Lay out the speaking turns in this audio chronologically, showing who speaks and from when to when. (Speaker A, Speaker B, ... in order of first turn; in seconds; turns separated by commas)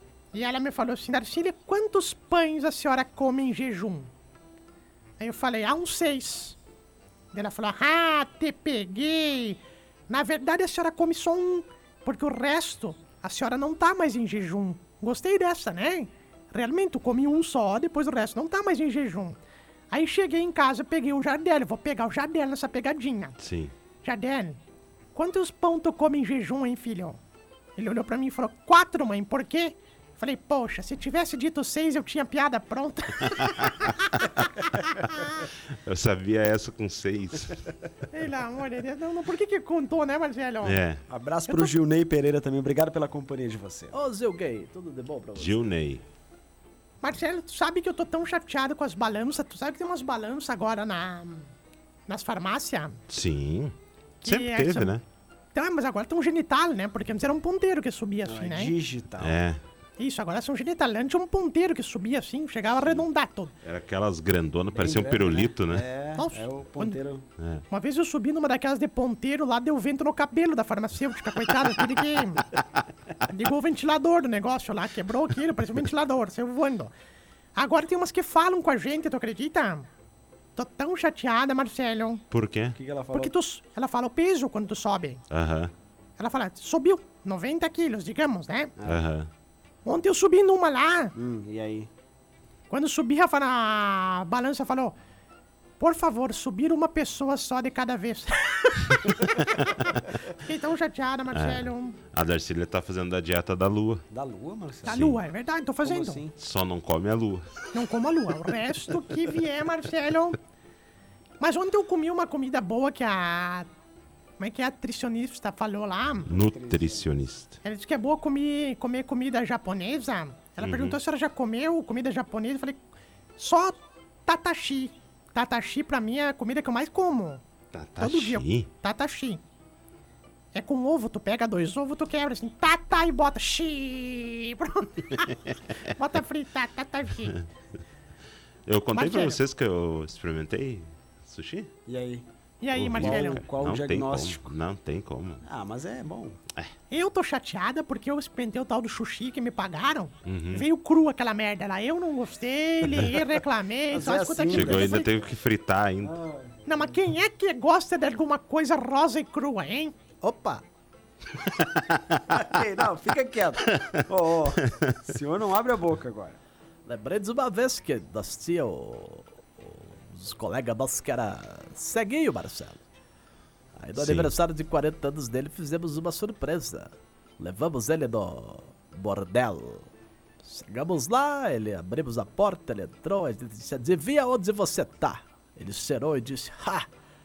Speaker A: 0.3-4.1, Speaker A: 5.2-6.6, Speaker A: 7.3-19.4, Speaker A: 19.9-23.4, Speaker B: 23.4-23.7, Speaker A: 24.0-24.6, Speaker A: 25.1-27.2, Speaker A: 27.8-35.5, Speaker B: 35.4-37.7, Speaker A: 38.1-40.8, Speaker B: 40.6-41.0, Speaker C: 41.1-44.0, Speaker A: 41.5-41.7, Speaker D: 43.9-45.6, Speaker B: 45.4-46.0, Speaker A: 47.0-51.5, Speaker A: 52.1-53.0, Speaker B: 53.1-55.0, Speaker A: 54.2-55.0, Speaker A: 55.5-58.7, Speaker C: 58.2-59.4, Speaker B: 59.2-59.6, Speaker A: 60.0-63.5, Speaker B: 63.6-65.8, Speaker C: 64.7-67.3, Speaker A: 66.2-67.0, Speaker A: 67.7-72.5, Speaker A: 73.3-76.9, Speaker A: 77.5-79.9, Speaker A: 80.6-82.2, Speaker B: 82.3-82.8, Speaker C: 82.8-83.3, Speaker A: 83.1-85.2, Speaker B: 85.3-85.7, Speaker A: 86.2-88.7, Speaker C: 88.8-89.0, Speaker B: 88.8-89.3, Speaker A: 89.9-91.2, Speaker C: 91.2-91.9, Speaker A: 92.7-95.0, Speaker A: 95.8-102.0, Speaker B: 101.3-104.0, Speaker C: 104.1-105.1, Speaker A: 104.8-106.2, Speaker B: 104.9-105.2, Speaker C: 105.8-106.3, Speaker B: 106.4-107.7, Speaker A: 107.7-110.4, Speaker A: 111.4-113.7, Speaker A: 114.4-116.3, Speaker B: 116.3-117.6, Speaker C: 116.3-117.1, Speaker A: 117.6-122.8, Speaker B: 120.6-121.0, Speaker A: 123.4-127.4, Speaker B: 127.7-128.7, Speaker A: 128.0-129.4, Speaker A: 130.5-137.4, Speaker B: 138.7-141.7, Speaker A: 138.9-139.4, Speaker C: 141.9-142.3, Speaker A: 142.6-143.4, Speaker B: 142.7-145.4, Speaker C: 142.9-144.5, Speaker C: 145.4-146.4, Speaker A: 146.9-155.2, Speaker B: 150.2-150.7, Speaker B: 152.9-153.2, Speaker C: 153.9-155.2, Speaker B: 154.5-156.1, Speaker C: 156.0-157.0, Speaker A: 156.7-159.9, Speaker D: 160.2-160.6, Speaker C: 162.3-166.4, Speaker D: 166.9-172.8, Speaker D: 173.8-179.9, Speaker B: 174.0-174.3, Speaker D: 180.4-186.9